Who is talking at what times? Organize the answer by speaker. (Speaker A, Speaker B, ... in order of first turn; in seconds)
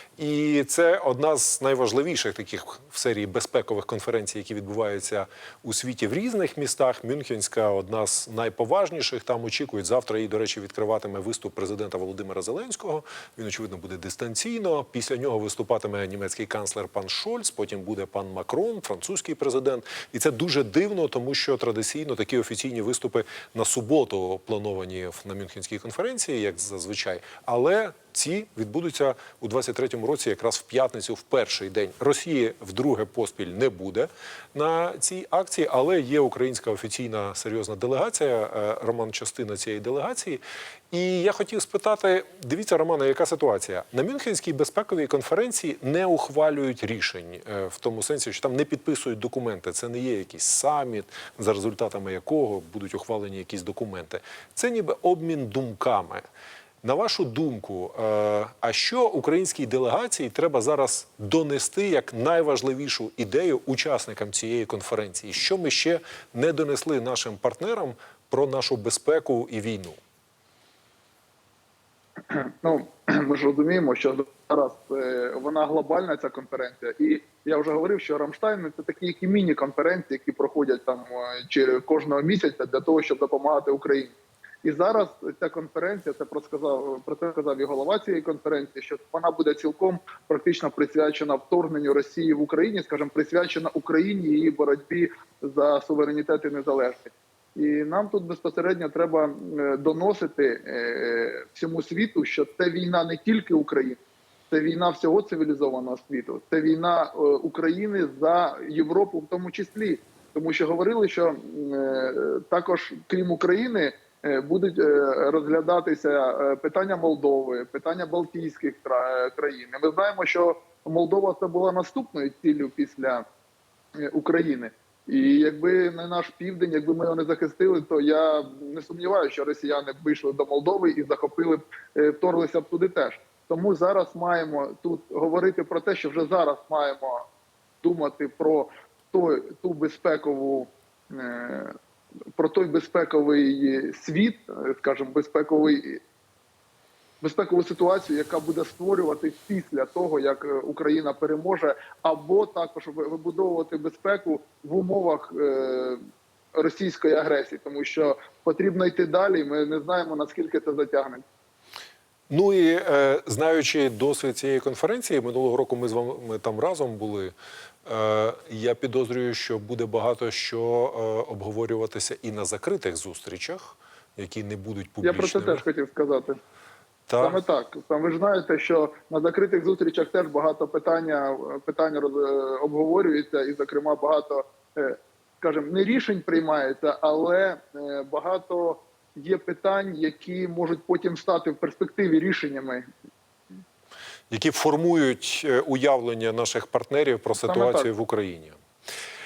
Speaker A: 0.2-56.2, 56.8-70.0, 162.3-167.3, 167.9-175.6, 177.1-177.4, 194.3-198.5
Speaker B: 72.3-104.0, 104.5-123.2, 124.0-137.2, 137.8-141.7, 142.4-146.0, 147.2-156.0, 156.5-161.2, 175.0-176.4, 177.2-192.8, 197.4-197.9